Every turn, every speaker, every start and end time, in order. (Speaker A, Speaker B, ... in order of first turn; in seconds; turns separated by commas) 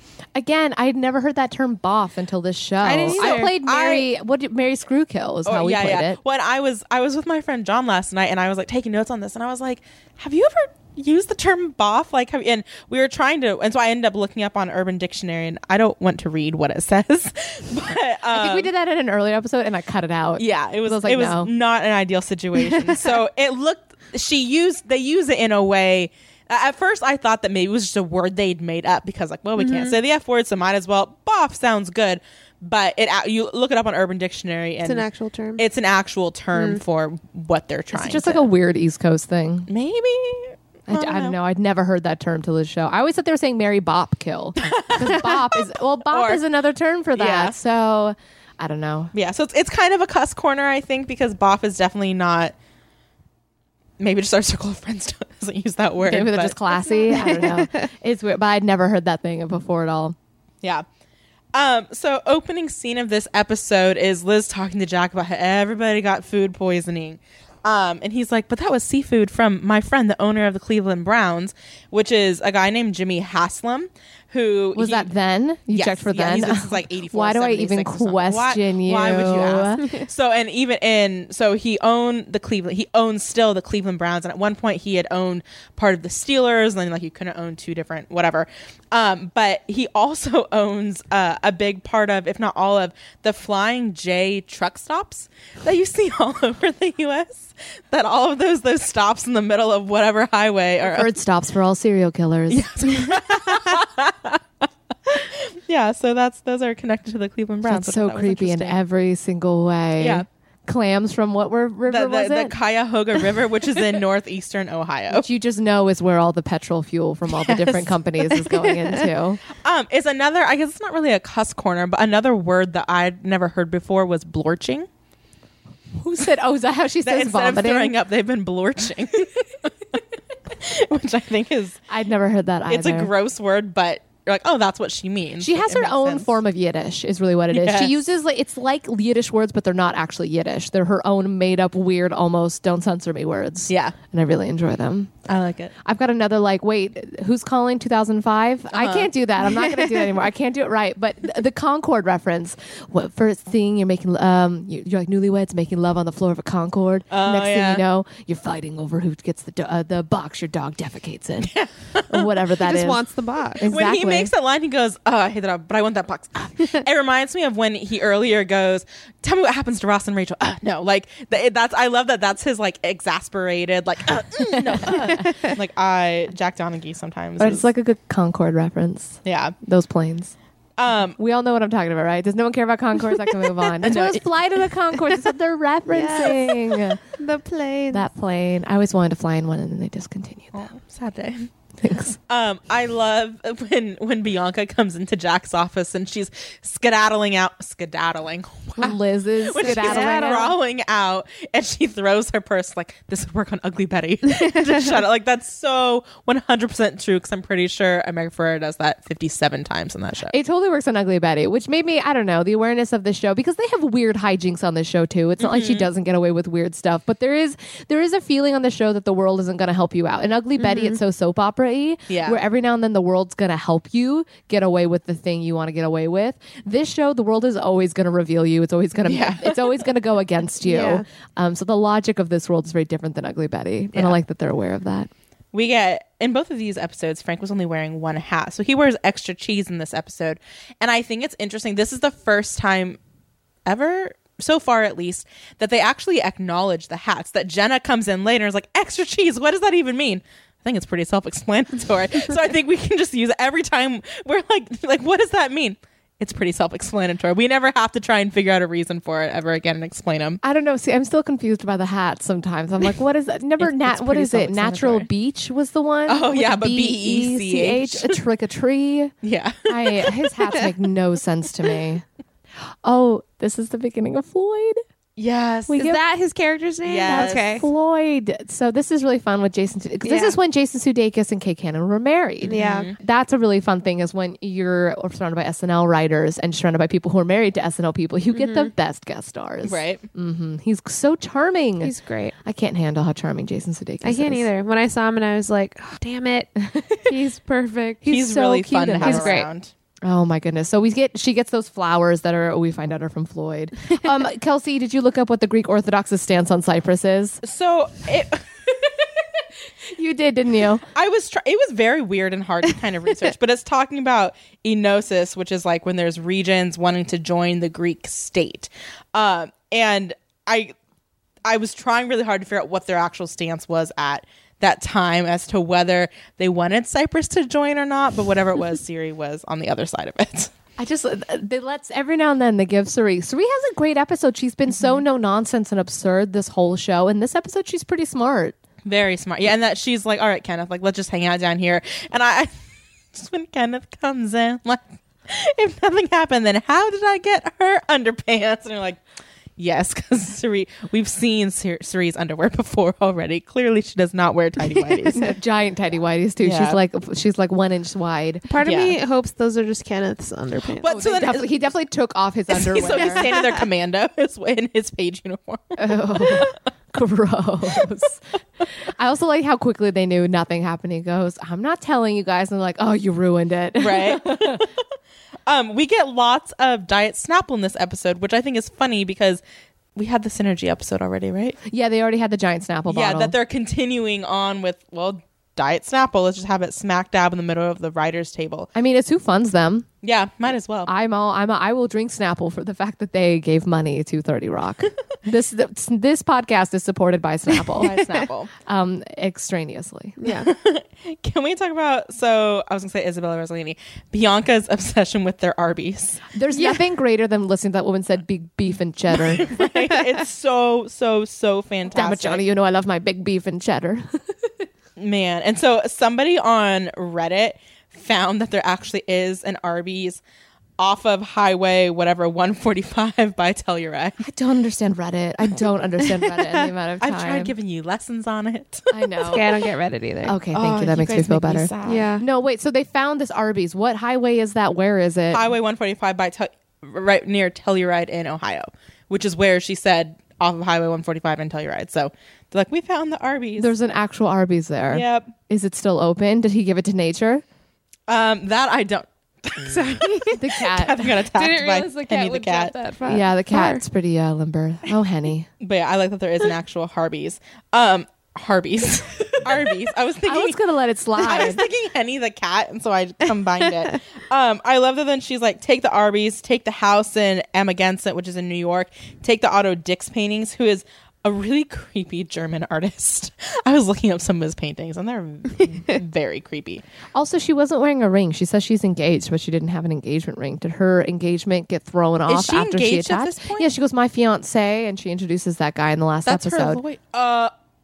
Speaker A: 0.3-6.2, Speaker B: 2.8-3.5, Speaker C: 3.0-4.1, Speaker C: 5.4-18.7, Speaker A: 18.3-21.5, Speaker C: 20.4-35.0, Speaker B: 29.6-30.0, Speaker B: 34.8-35.6, Speaker C: 35.6-38.5, Speaker B: 36.5-36.8, Speaker A: 37.9-39.7, Speaker C: 39.7-41.4, Speaker A: 40.9-49.1, Speaker C: 44.6-46.4, Speaker C: 47.1-47.6, Speaker C: 49.1-52.5, Speaker C: 54.0-56.5, Speaker A: 56.0-60.1, Speaker B: 56.8-57.8, Speaker C: 57.1-57.4, Speaker C: 61.5-75.1, Speaker A: 74.7-79.9, Speaker C: 75.7-101.1, Speaker A: 100.9-102.7, Speaker C: 102.5-104.4, Speaker C: 105.1-108.8, Speaker A: 107.6-112.5, Speaker C: 110.0-110.2, Speaker C: 111.9-115.3, Speaker A: 115.1-119.4, Speaker C: 117.3-118.3, Speaker C: 119.6-124.9, Speaker A: 126.0-127.9, Speaker C: 127.0-131.8, Speaker A: 131.9-133.1, Speaker C: 132.7-136.4, Speaker A: 135.4-145.1, Speaker C: 137.5-138.1, Speaker C: 143.7-143.9, Speaker C: 145.3-145.7, Speaker A: 145.8-161.5, Speaker C: 148.7-149.1, Speaker C: 157.1-157.8, Speaker C: 161.4-162.3, Speaker A: 162.1-163.0, Speaker B: 162.6-163.6, Speaker A: 163.6-164.3, Speaker C: 163.6-177.7, Speaker A: 174.6-175.3, Speaker A: 177.4-180.3, Speaker C: 179.2-179.6, Speaker C: 180.8-181.2, Speaker A: 181.2-187.0, Speaker C: 183.8-184.2, Speaker B: 185.9-188.1, Speaker A: 187.9-190.7, Speaker C: 190.5-191.5, Speaker A: 191.8-192.2, Speaker C: 192.2-210.3, Speaker A: 198.8-200.5, Speaker B: 199.6-200.4, Speaker A: 210.3-235.1, Speaker C: 215.4-215.9, Speaker B: 220.6-221.0, Speaker C: 222.1-222.4, Speaker C: 229.1-229.8, Speaker B: 230.6-231.1, Speaker C: 235.5-243.0, Speaker C: 243.7-260.4, Speaker A: 260.4-269.1, Speaker C: 263.6-265.1, Speaker C: 266.1-268.2, Speaker C: 269.2-270.2, Speaker A: 269.7-272.0, Speaker A: 272.8-274.8, Speaker C: 275.2-275.9, Speaker A: 275.7-276.0, Speaker B: 275.7-277.6, Speaker C: 276.8-277.6, Speaker A: 277.1-291.9, Speaker B: 280.1-280.4, Speaker C: 282.4-283.0, Speaker B: 282.4-282.9, Speaker B: 288.3-288.7, Speaker C: 289.6-290.1, Speaker B: 291.8-292.3, Speaker A: 292.4-294.5, Speaker B: 294.0-296.5, Speaker A: 296.6-297.1, Speaker B: 297.1-298.1, Speaker A: 298.0-299.4, Speaker C: 298.1-299.7, Speaker B: 299.0-299.5, Speaker A: 300.0-307.4, Speaker C: 307.4-308.5, Speaker A: 309.9-310.8, Speaker C: 310.9-320.7, Speaker C: 321.4-330.5, Speaker A: 330.8-338.6, Speaker C: 338.8-342.5, Speaker C: 343.1-349.0, Speaker C: 349.6-355.2, Speaker B: 354.8-355.3, Speaker A: 355.1-358.4, Speaker C: 356.4-356.8, Speaker B: 358.5-360.9, Speaker C: 358.6-359.0, Speaker C: 360.8-361.5, Speaker A: 360.9-363.3, Speaker C: 362.5-366.6, Speaker B: 362.9-363.6, Speaker A: 365.8-368.2, Speaker A: 368.9-374.6, Speaker C: 373.8-374.8, Speaker C: 375.4-379.4, Speaker C: 379.9-381.6, Speaker A: 381.6-383.3, Speaker C: 382.9-388.7, Speaker A: 388.7-389.9, Speaker C: 390.0-390.9, Speaker A: 390.9-398.0, Speaker C: 397.8-398.5, Speaker B: 397.9-398.2, Speaker A: 398.6-400.2, Speaker B: 400.2-400.5, Speaker C: 400.3-406.2, Speaker A: 406.3-409.5, Speaker C: 409.1-412.4, Speaker A: 411.9-414.5, Speaker C: 415.0-420.2, Speaker C: 420.8-424.2, Speaker A: 424.2-427.5, Speaker C: 427.0-429.1, Speaker A: 428.9-429.5, Speaker B: 429.2-430.3, Speaker A: 430.2-435.5, Speaker C: 430.5-432.1, Speaker B: 431.8-432.2, Speaker C: 435.3-443.7, Speaker A: 443.6-447.4, Speaker C: 444.9-445.3, Speaker C: 448.1-452.7, Speaker A: 450.3-451.1, Speaker B: 451.3-453.8, Speaker A: 453.1-455.5, Speaker C: 455.6-460.6, Speaker A: 460.2-461.6, Speaker C: 461.2-476.8, Speaker A: 477.1-486.8, Speaker C: 482.3-483.7, Speaker C: 486.2-487.5